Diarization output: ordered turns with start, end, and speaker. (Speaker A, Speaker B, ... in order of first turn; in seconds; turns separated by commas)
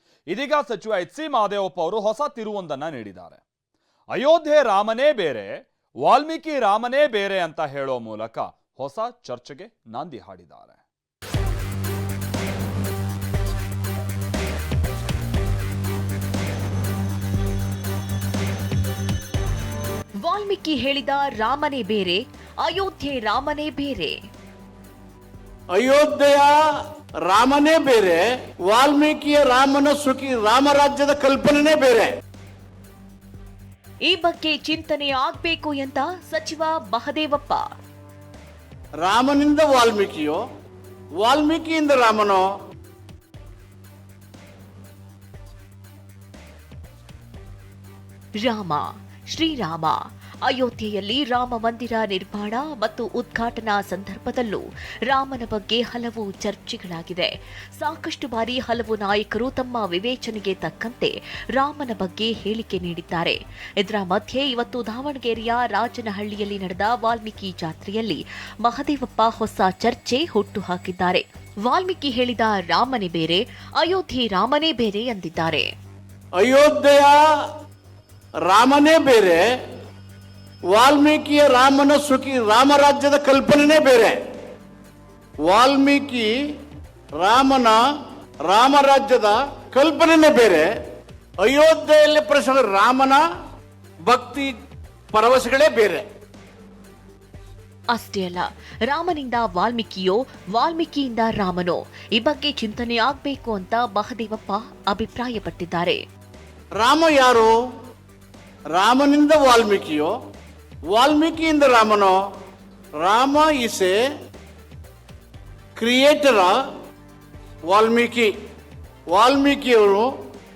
Speaker A: 0.3-3.4, Speaker A: 4.1-10.8, Speaker B: 20.2-24.1, Speaker C: 25.7-26.5, Speaker C: 27.2-32.1, Speaker B: 34.1-37.6, Speaker C: 39.0-40.4, Speaker C: 41.2-42.5, Speaker B: 48.4-75.7, Speaker C: 76.4-77.2, Speaker C: 78.5-79.4, Speaker C: 80.7-84.2, Speaker C: 85.5-86.3, Speaker C: 87.2-87.8, Speaker C: 88.5-90.7, Speaker C: 91.4-93.2, Speaker C: 94.1-94.5, Speaker C: 95.1-96.0, Speaker B: 97.9-106.0, Speaker C: 106.8-107.5, Speaker C: 108.7-110.1, Speaker C: 110.9-112.2, Speaker C: 113.0-114.0, Speaker C: 115.8-116.5, Speaker C: 117.7-118.3, Speaker C: 119.1-120.1